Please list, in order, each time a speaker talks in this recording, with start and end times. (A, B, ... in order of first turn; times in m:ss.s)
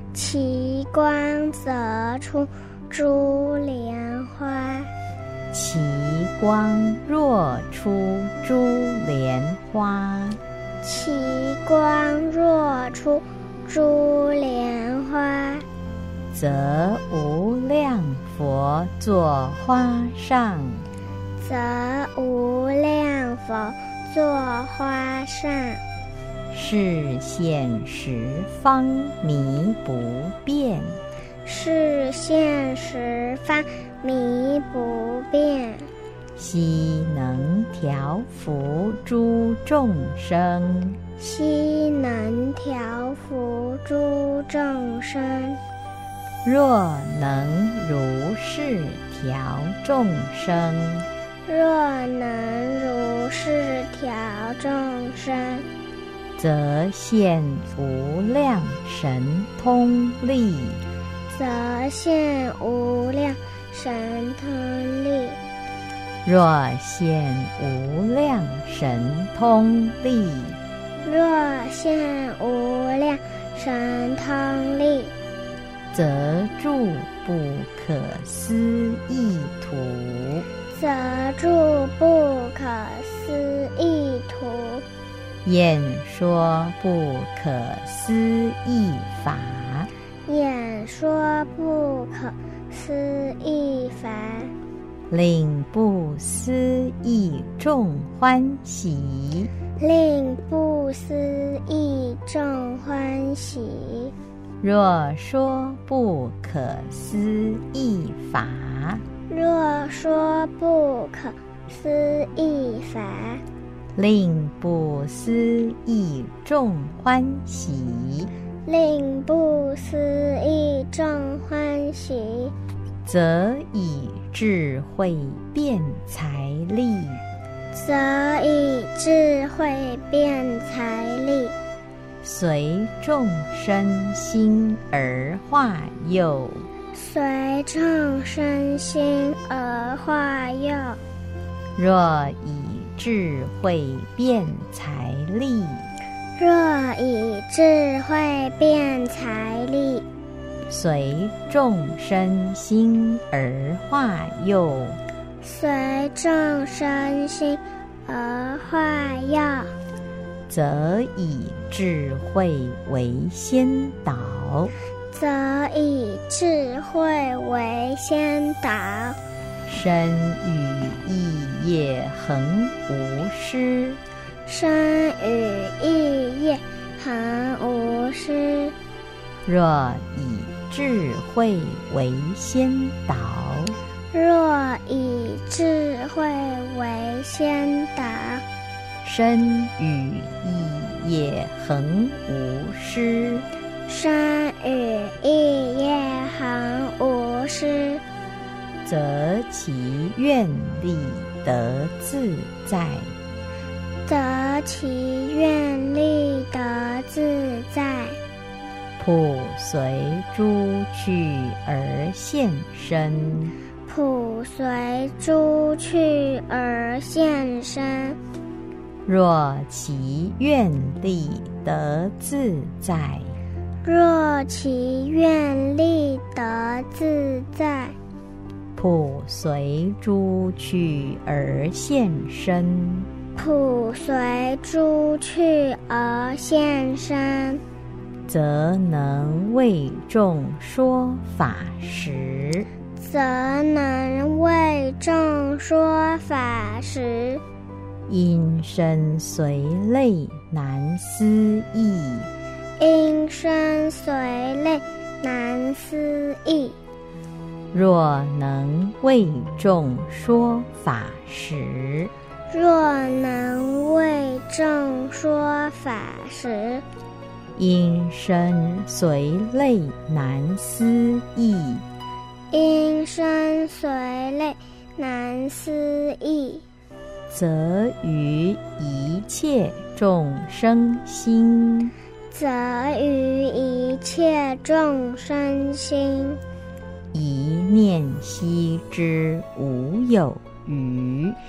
0:00.1-0:04.9 A
0:05.5-0:10.4 B
0:10.8-0:15.6 A
0:16.3-0:20.9 B
0:21.4-0:25.8 A
0:26.5-0:31.0 B
0:31.4-0:35.9 A
0:36.4-0:41.0 B
0:41.2-0:45.6 A
0:46.4-0:51.1 B
0:51.4-0:55.6 A
0:56.4-1:00.8 B
1:01.3-1:05.4 A
1:06.2-1:10.6 B
1:11.0-1:15.1 A
1:15.9-1:20.5 B
1:20.7-1:24.8 A
1:25.4-1:29.9 B
1:30.3-1:34.5 A
1:35.1-1:39.5 B
1:39.8-1:44.1 A
1:44.6-1:49.0 B
1:49.3-1:53.4 A
1:54.0-1:58.3 B
1:58.6-2:02.5 A
2:03.0-2:07.2 B
2:07.7-2:11.5 A
2:12.2-2:16.7 B
2:16.9-2:21.0 A
2:21.8-2:25.9 B
2:26.4-2:30.0 A
2:30.7-2:35.0 B
2:35.4-2:39.7 A
2:40.5-2:44.7 B
2:45.1-2:49.2 A
2:49.6-2:54.0 B
2:54.4-2:58.7 A
2:59.4-3:03.8 B
3:04.1-3:08.4 A
3:09.0-3:13.4 B
3:13.9-3:18.0 A
3:18.8-3:23.1 B
3:24.0-3:28.2 A
3:29.0-3:33.5 B
3:33.8-3:38.2 A
3:39.0-3:43.4 B
3:43.8-3:48.0 A
3:48.8-3:53.1 B
3:53.4-3:57.6 A
3:58.3-4:02.7 B
4:03.0-4:07.4 A
4:08.1-4:12.3 B
4:12.8-4:16.8 A
4:17.7-4:22.1 B
4:22.5-4:26.8 A
4:27.6-4:31.8 B
4:32.5-4:36.6 A
4:37.3-4:41.9 B
4:42.3-4:46.4 A
4:47.1-4:51.4 B